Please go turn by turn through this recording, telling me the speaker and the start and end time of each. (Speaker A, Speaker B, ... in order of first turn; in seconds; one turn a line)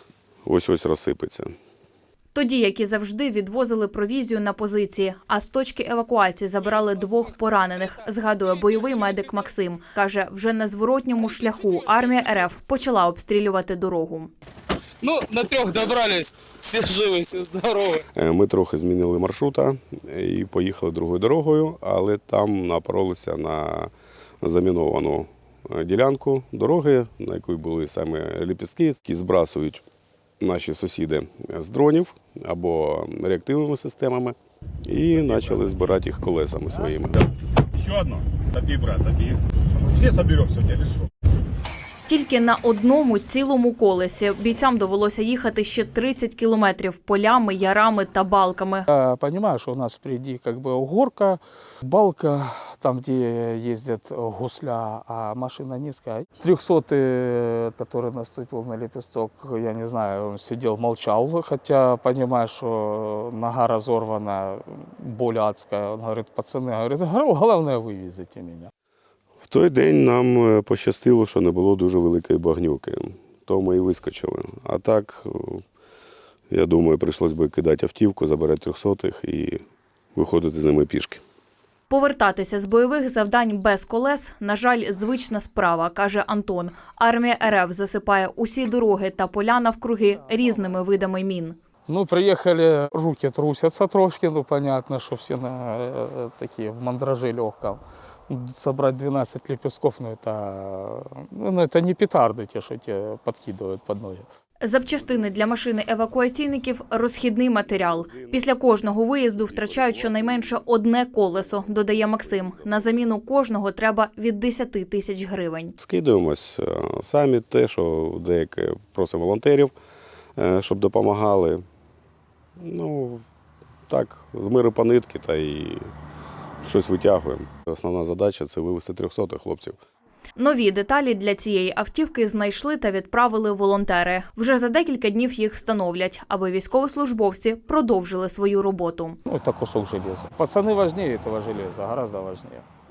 Speaker A: 0.4-1.5
Speaker B: 2.3-14.3
Speaker C: 15.0-18.0
Speaker A: 18.1-23.9
Speaker A: 24.4-29.8
Speaker A: 30.4-37.3
Speaker D: 37.8-41.1
Speaker B: 42.1-48.9
Speaker E: 48.9-68.7
Speaker A: 69.4-75.6
Speaker A: 76.5-79.6
Speaker A: 80.2-81.2
Speaker B: 81.9-91.5
Speaker E: 91.9-104.2
Speaker B: 104.6-115.7
Speaker A: 107.8-108.4
Speaker A: 109.4-110.6
Speaker A: 111.3-113.0
Speaker A: 115.8-119.7
Speaker A: 120.4-121.6
Speaker A: 122.6-123.2
Speaker A: 123.9-125.9
Speaker A: 126.6-129.8
Speaker B: 130.4-139.2
Speaker E: 139.3-142.6